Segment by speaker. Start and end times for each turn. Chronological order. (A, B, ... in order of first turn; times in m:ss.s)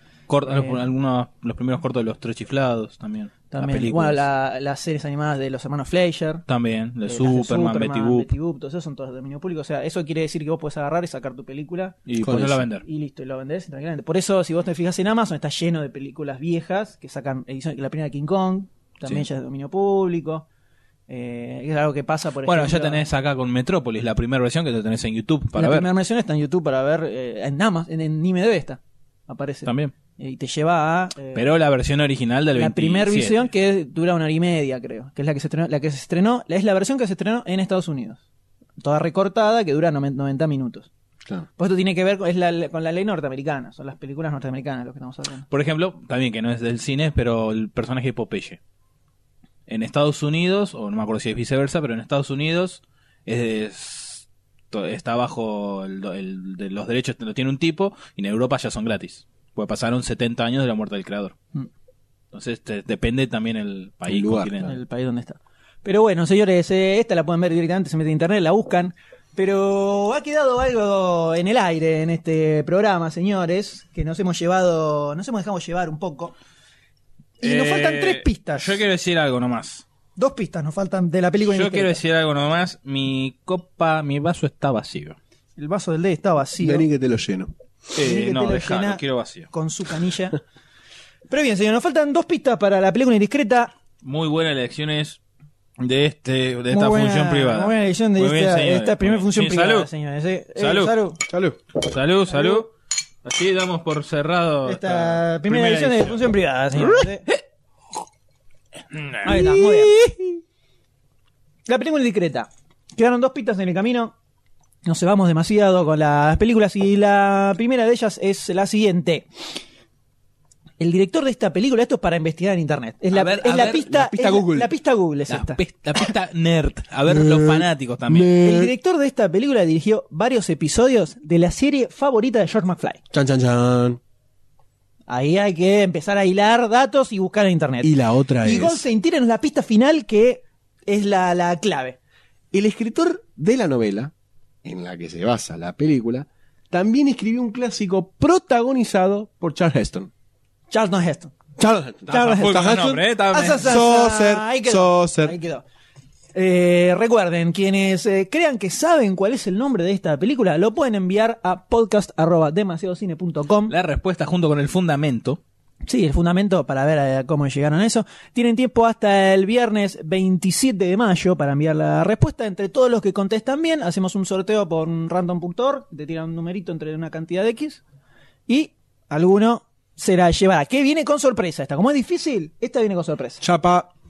0:00.3-0:04.2 A
0:00.5-0:00.8 B
0:03.5-0:06.4 B
0:06.5-0:08.3 A
0:07.1-0:12.0 B
0:12.1-0:12.8 A
0:12.2-0:12.7 C
0:12.8-0:20.5 B
0:21.1-0:23.0 B
0:22.4-0:25.9 A
0:25.6-0:31.5 B
0:29.7-0:29.9 A
0:31.4-0:33.4 A
0:32.5-0:38.2 B
0:38.8-0:40.9 B
0:41.6-0:45.5 B
0:45.5-0:48.6 A
0:49.7-1:01.4 A
1:02.3-1:04.8 A
1:04.1-1:04.6 C
1:04.6-1:16.4 B
1:17.4-1:18.8 B
1:17.4-1:19.8 A
1:20.2-1:22.0 B
1:21.5-1:25.2 A
1:25.6-1:26.9 B
1:26.6-1:27.5 C
1:28.0-1:29.5 A
1:28.0-1:30.4 B
1:31.3-1:33.7 B
1:34.0-1:35.2 A
1:35.8-1:39.9 A
1:36.7-1:41.2 B
1:40.6-1:41.0 A
1:41.3-1:41.6 C
1:41.8-1:42.7 A
1:42.3-1:42.7 B
1:43.2-1:46.2 A
1:44.6-1:47.3 B
1:46.8-1:47.3 A
1:48.9-1:50.2 A
1:49.2-1:50.0 B
1:51.7-1:54.1 B
1:54.8-1:59.3 B
2:00.8-2:05.6 B
2:03.1-2:03.9 A
2:03.7-2:04.7 C
2:05.3-2:08.3 A
2:07.1-2:08.7 C
2:08.4-2:13.0 B
2:13.1-2:14.0 C
2:15.1-2:22.0 B
2:17.8-2:18.8 C
2:22.5-2:24.1 C
2:24.6-2:30.1 C
2:30.7-2:31.3 B
2:31.6-2:33.0 C
2:32.1-2:33.7 A
2:32.1-2:35.6 B
2:33.6-2:35.4 C
2:36.4-2:43.7 B
2:43.7-2:45.4 A
2:45.9-2:57.8 B
2:58.5-3:03.4 B
3:03.4-3:03.9 C